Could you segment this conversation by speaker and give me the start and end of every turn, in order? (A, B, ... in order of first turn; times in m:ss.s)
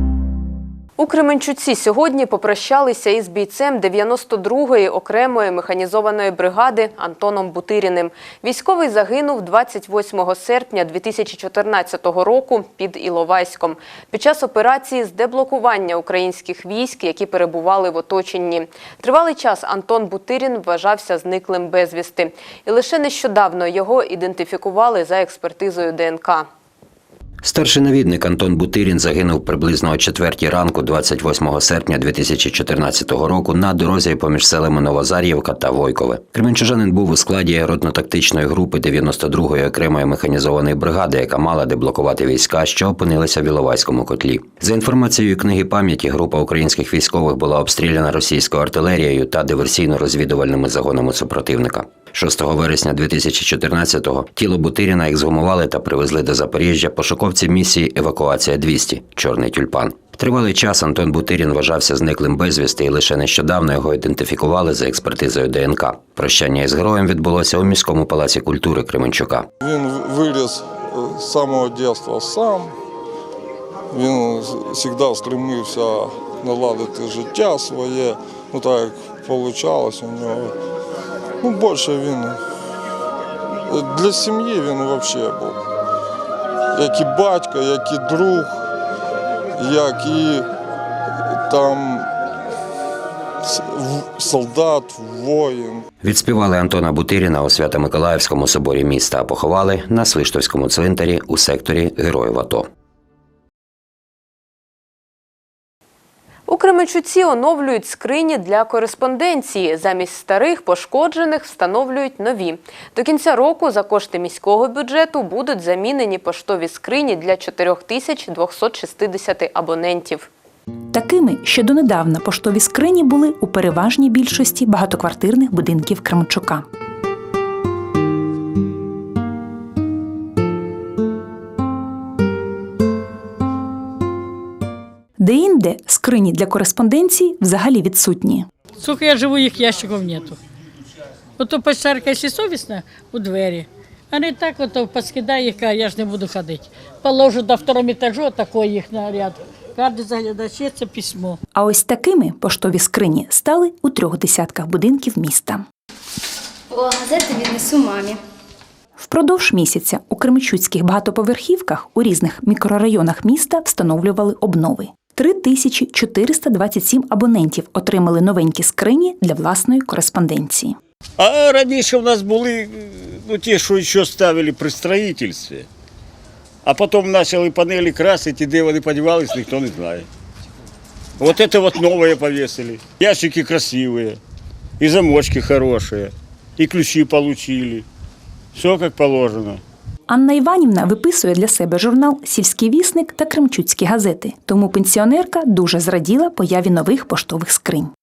0:01.0-0:26.4 A
0:27.4-1:09.5 B
1:09.6-1:12.7 C
1:13.9-1:20.5 C
1:21.4-1:22.4 C
1:23.7-1:25.6 C
1:26.7-1:28.5 C
1:29.6-1:30.4 C
1:31.5-1:32.0 C
1:33.4-1:35.8 C
1:36.0-1:42.7 B
1:46.5-2:00.2 A
2:00.9-2:06.6 D
2:15.2-2:18.5 D
2:18.8-2:20.4 E
2:21.4-2:31.4 E
2:31.5-2:35.6 D
2:39.0-2:50.8 D
2:51.2-2:55.6 F
2:56.6-3:00.0 F
3:01.2-3:04.2 F
3:04.8-3:07.8 F
3:08.5-3:09.6 F
3:10.1-3:17.9 D